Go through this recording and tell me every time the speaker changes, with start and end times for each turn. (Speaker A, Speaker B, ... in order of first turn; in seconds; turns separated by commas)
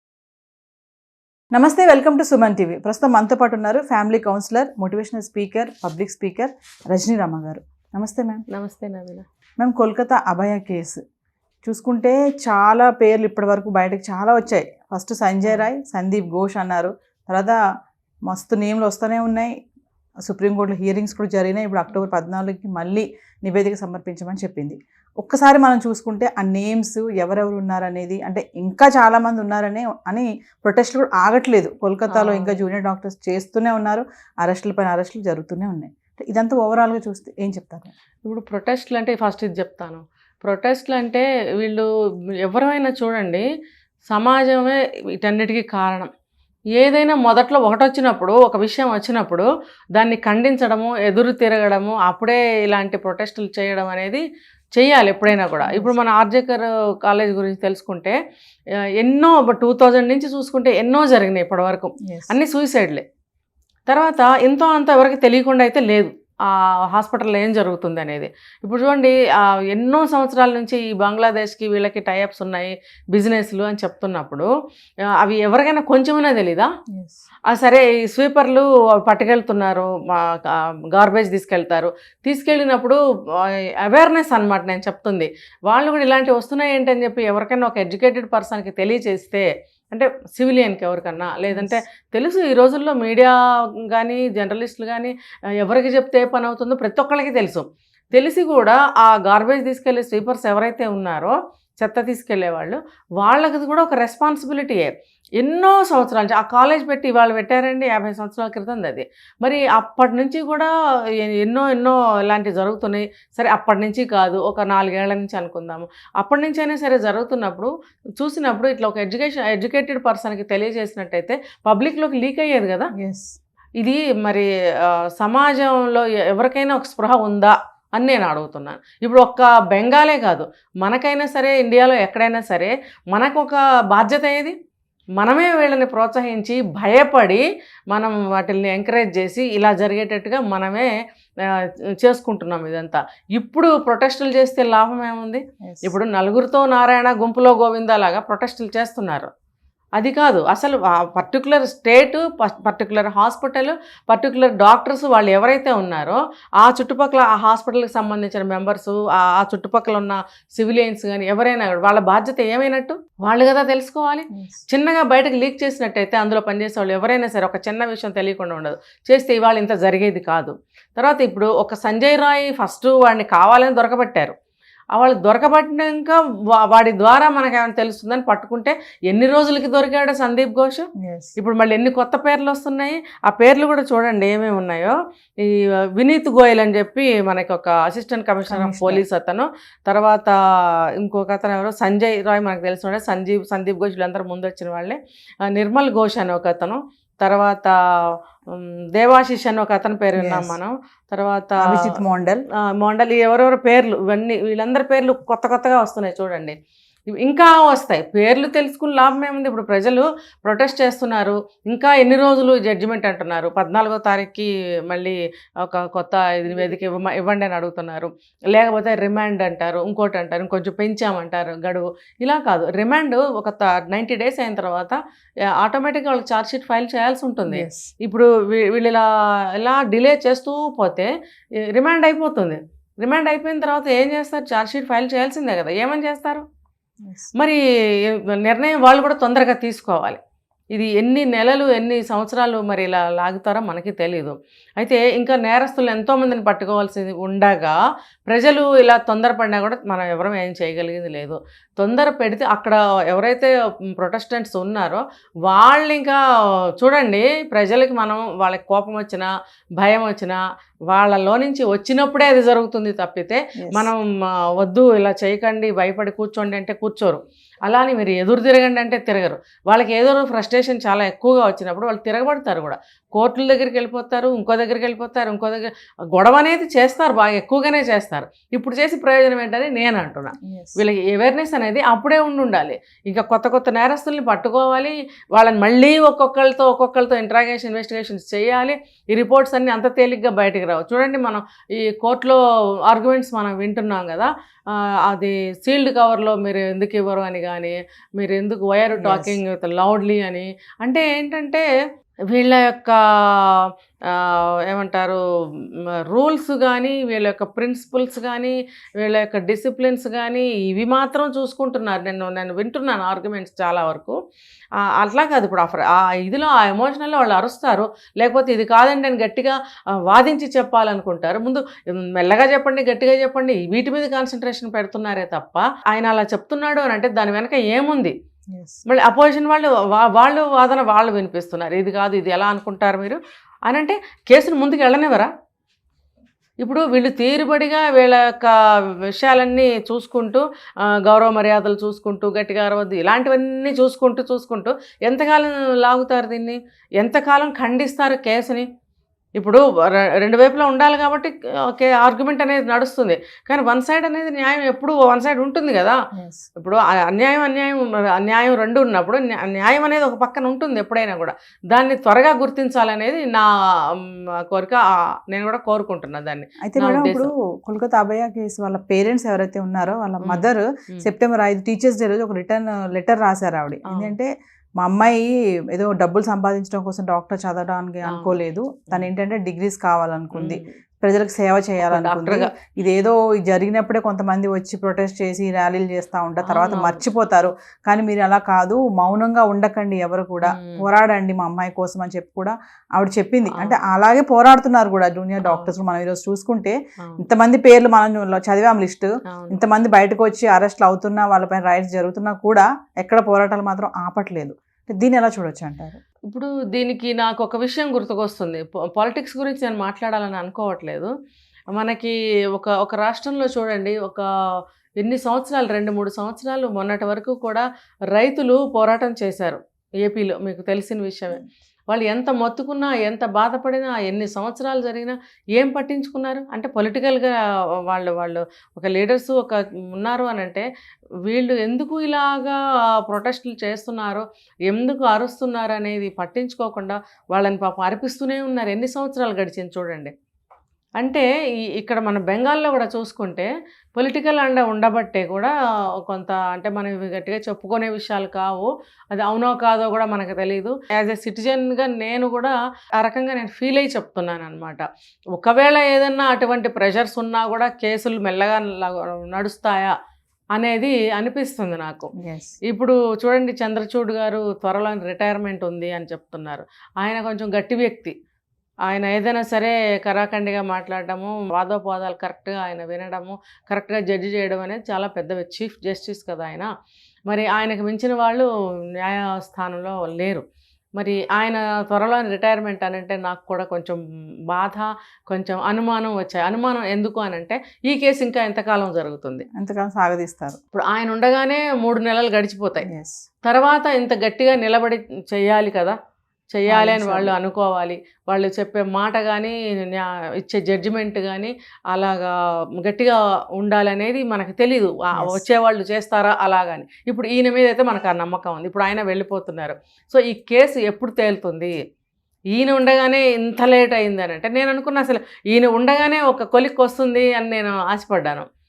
Speaker A: 1.5-8.4, Speaker B: 8.5-9.2, Speaker A: 9.6-11.0, Speaker A: 11.6-17.6, Speaker A: 18.3-19.5, Speaker A: 20.2-37.9, Speaker B: 32.1-32.6, Speaker B: 38.3-41.9, Speaker B: 42.5-43.5, Speaker B: 44.1-46.1, Speaker B: 46.8-54.2, Speaker B: 54.8-58.2, Speaker A: 55.3-56.0, Speaker B: 59.0-63.0, Speaker A: 62.1-62.4, Speaker B: 63.9-69.2, Speaker B: 69.7-74.5, Speaker B: 75.2-76.7, Speaker A: 76.9-77.2, Speaker B: 77.5-93.3, Speaker A: 91.5-91.8, Speaker B: 93.8-110.7, Speaker B: 111.2-122.9, Speaker A: 123.0-123.3, Speaker B: 123.8-134.5, Speaker B: 135.2-140.9, Speaker B: 141.5-149.3, Speaker A: 145.6-145.9, Speaker B: 150.0-174.3, Speaker A: 164.3-164.6, Speaker B: 174.9-180.8, Speaker A: 181.0-181.3, Speaker B: 181.4-190.3, Speaker A: 188.5-189.0, Speaker B: 191.0-197.7, Speaker B: 198.5-201.9, Speaker A: 200.2-200.6, Speaker A: 201.6-202.4, Speaker B: 202.8-206.6, Speaker B: 207.2-225.0, Speaker B: 225.6-229.1, Speaker A: 227.5-227.9, Speaker B: 229.6-231.1, Speaker B: 231.7-236.4, Speaker A: 237.1-237.3, Speaker B: 237.4-240.2, Speaker B: 240.7-247.8, Speaker B: 248.3-256.2, Speaker B: 256.8-301.6, Speaker A: 263.6-263.9, Speaker A: 280.4-280.8, Speaker A: 298.9-299.4, Speaker B: 302.3-305.2, Speaker B: 306.1-314.2, Speaker B: 314.9-328.1, Speaker A: 328.5-328.8, Speaker B: 328.9-335.3, Speaker B: 336.6-338.6, Speaker B: 339.1-340.4, Speaker B: 341.0-348.7, Speaker B: 349.4-349.6, Speaker B: 350.2-355.9, Speaker A: 356.2-356.4, Speaker B: 356.6-363.5, Speaker B: 364.0-367.3, Speaker A: 366.6-406.0, Speaker B: 370.2-371.1, Speaker B: 373.9-374.1, Speaker B: 378.1-378.4, Speaker B: 380.3-380.8, Speaker B: 381.9-382.5, Speaker B: 386.4-387.1, Speaker B: 390.4-390.8, Speaker B: 393.5-393.8, Speaker B: 395.4-395.7, Speaker B: 399.3-399.6, Speaker B: 406.3-411.1, Speaker B: 411.8-414.2, Speaker B: 415.0-427.4, Speaker B: 427.9-430.7, Speaker B: 431.3-440.1, Speaker B: 441.0-445.5, Speaker B: 446.1-459.9, Speaker B: 460.6-462.1, Speaker A: 462.2-462.6, Speaker B: 462.7-468.1, Speaker B: 468.9-476.7, Speaker B: 477.3-478.5, Speaker B: 479.0-480.4, Speaker B: 481.0-489.4, Speaker A: 489.5-490.6, Speaker B: 490.7-492.9, Speaker A: 492.9-493.2, Speaker B: 493.5-495.9, Speaker B: 496.5-511.8, Speaker A: 496.7-497.4, Speaker A: 505.1-505.4, Speaker B: 512.5-518.5